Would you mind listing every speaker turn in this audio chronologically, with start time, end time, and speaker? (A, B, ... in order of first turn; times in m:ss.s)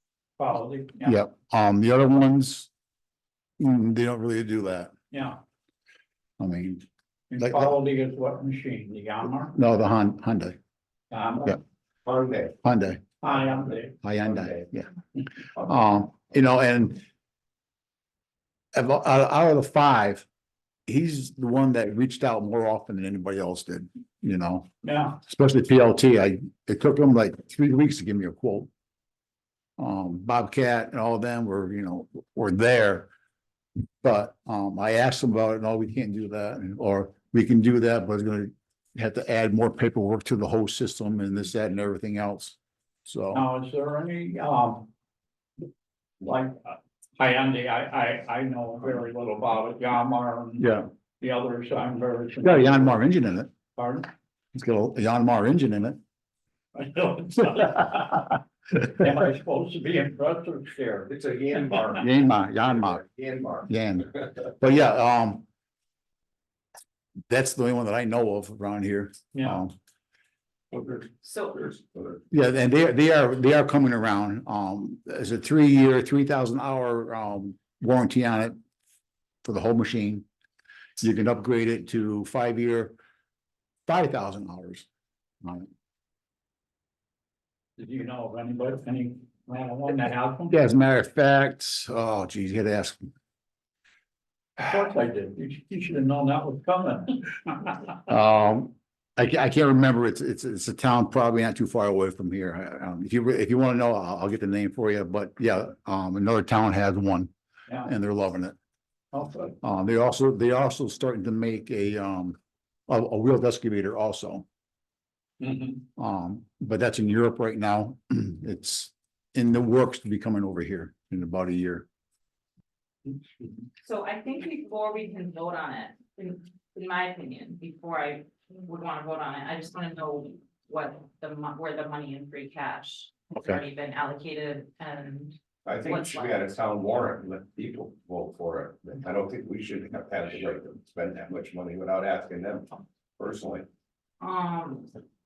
0:00.4-0:01.2 A
0:01.0-0:02.7 B
0:03.6-0:04.9 B
0:05.1-0:05.4 A
0:06.4-0:06.8 B
0:07.3-0:09.6 A
0:07.4-0:07.7 B
0:09.5-0:10.6 B
0:11.1-0:11.6 A
0:12.0-0:12.6 C
0:12.6-0:13.1 B
0:13.2-0:14.0 A
0:14.0-0:14.9 B
0:14.2-0:14.7 C
0:15.6-0:17.0 B
0:18.7-0:20.2 B
0:20.9-0:24.7 B
0:24.8-0:25.2 A
0:25.2-0:28.7 B
0:29.8-0:33.1 B
0:34.0-0:43.5 B
0:43.3-0:44.9 A
0:46.2-0:53.0 A
0:50.6-0:50.9 B
0:52.4-0:53.5 B
0:53.8-0:54.1 A
0:54.5-0:56.0 B
0:56.7-1:01.7 A
1:01.1-1:03.7 C
1:02.0-1:03.0 B
1:03.7-1:05.4 B
1:07.3-1:09.7 B
1:09.3-1:09.6 A
1:10.7-1:12.2 C
1:11.2-1:11.6 D
1:12.3-1:18.6 B
1:19.4-1:20.2 B
1:21.0-1:23.0 B
1:23.9-1:24.9 B
1:25.4-1:25.7 B
1:27.8-1:30.6 A
1:30.5-1:33.0 B
1:34.6-1:38.0 A
1:38.1-1:47.3 B
1:47.8-1:48.6 B
1:49.1-1:49.6 A
1:49.6-1:52.4 B
1:52.9-1:54.4 B
1:55.4-1:55.8 A
1:56.0-2:01.9 B
2:03.8-2:16.4 D
2:13.3-2:13.6 B
2:15.7-2:23.7 C
2:24.2-2:25.0 D